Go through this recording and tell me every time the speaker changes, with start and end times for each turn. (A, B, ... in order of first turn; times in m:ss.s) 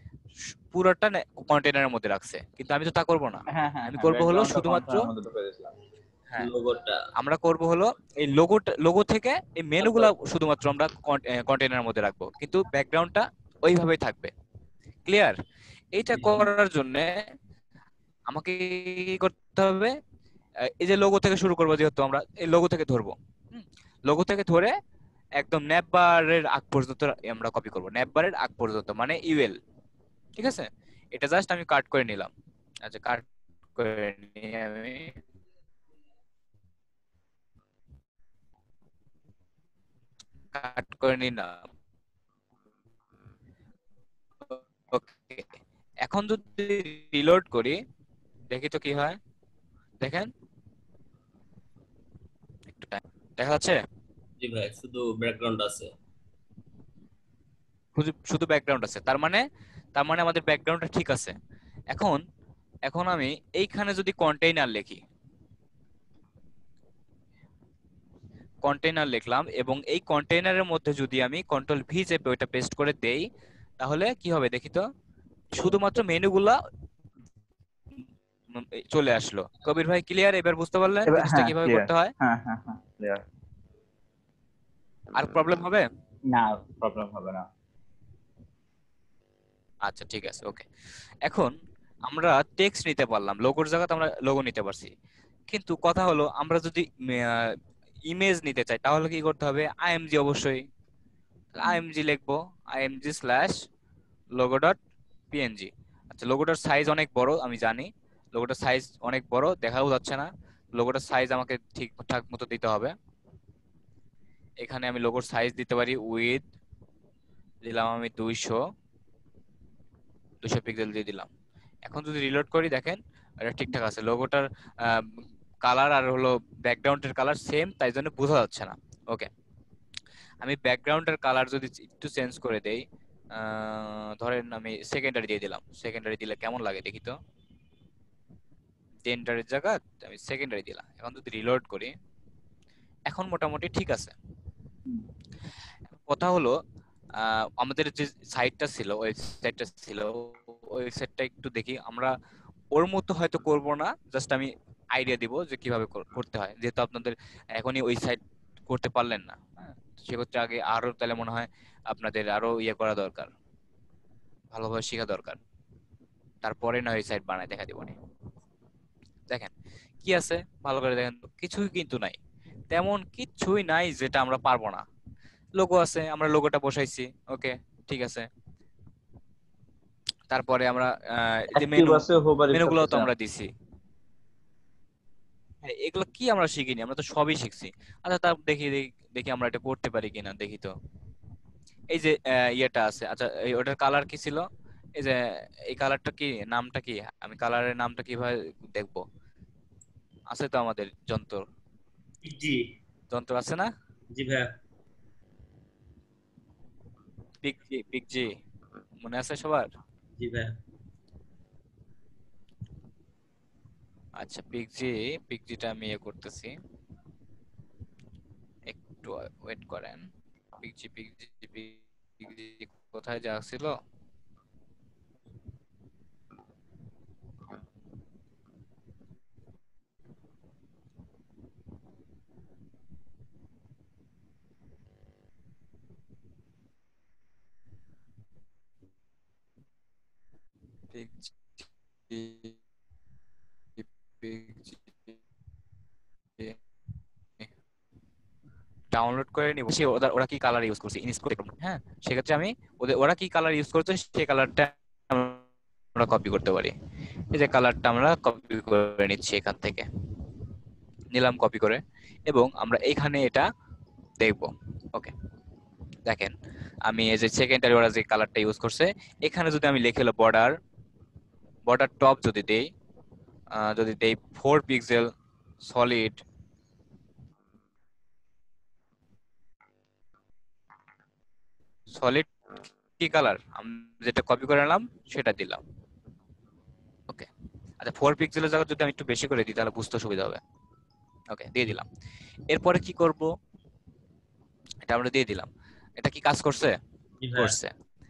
0:00.7-0:05.1 A
0:03.5-0:05.7 B
0:06.4-0:07.0 C
0:07.2-0:14.3 A
0:15.0-0:15.4 A
0:15.9-0:17.2 A
0:16.1-0:16.5 C
0:18.3-0:19.9 A
0:20.7-0:24.7 A
0:25.4-0:29.6 A
0:30.4-0:32.3 A
0:32.8-0:35.2 A
0:40.5-0:41.7 A
0:44.5-0:45.4 A
0:46.0-0:47.8 A
0:48.5-0:49.2 A
0:50.0-0:50.3 A
0:52.7-0:53.8 A
0:54.4-0:55.9 C
0:57.9-1:01.3 A
1:01.9-1:02.2 A
1:02.8-1:05.0 A
1:08.6-1:13.2 A
1:13.8-1:14.9 A
1:15.5-1:16.6 A
1:18.5-1:22.1 A
1:21.1-1:23.2 B
1:25.2-1:25.8 A
1:26.3-1:27.4 B
1:29.8-1:30.6 A
1:31.2-1:31.5 A
1:32.1-1:34.9 A
1:35.5-1:37.5 A
1:38.1-1:40.6 A
1:41.5-1:43.6 A
1:44.4-1:44.8 A
1:45.3-1:52.9 A
1:54.6-1:56.4 A
1:57.6-1:58.6 A
2:00.4-2:01.3 A
2:01.8-2:09.3 A
2:10.4-2:12.8 A
2:13.3-2:17.2 A
2:19.0-2:21.9 A
2:23.1-2:24.1 A
2:26.1-2:26.5 A
2:27.2-2:32.1 A
2:32.7-2:39.4 A
2:39.9-2:43.3 A
2:44.5-2:45.4 A
2:46.4-2:47.9 A
2:50.0-2:52.2 A
2:52.7-2:54.8 A
2:55.6-2:58.3 A
3:00.3-3:03.5 A
3:01.5-3:03.1 B
3:05.6-3:10.7 A
3:11.9-3:14.4 A
3:15.0-3:19.0 A
3:20.3-3:21.4 A
3:22.2-3:22.6 C
3:23.1-3:23.7 A
3:24.1-3:24.5 C
3:27.4-3:28.3 A
3:29.0-3:29.7 A
3:30.2-3:30.5 C
3:34.2-3:36.5 A
3:38.7-3:40.1 A
3:40.6-3:43.7 A
4:00.9-4:01.5 A
4:02.1-4:02.5 A
4:03.8-4:05.2 A
4:08.9-4:15.4 A
4:15.9-4:16.7 A
4:17.3-4:19.8 A
4:21.1-4:23.4 A
4:24.2-4:25.1 A
4:26.0-4:26.3 A
4:26.9-4:30.5 A
4:31.7-4:32.6 A
4:33.5-4:35.1 A
4:35.6-4:36.2 A
4:41.9-4:42.3 A
4:43.0-4:45.6 A
4:47.8-4:50.4 A
4:51.3-4:51.8 A
4:52.5-4:53.3 A
4:54.8-4:56.8 A
4:57.2-4:57.5 C
4:57.3-4:57.7 A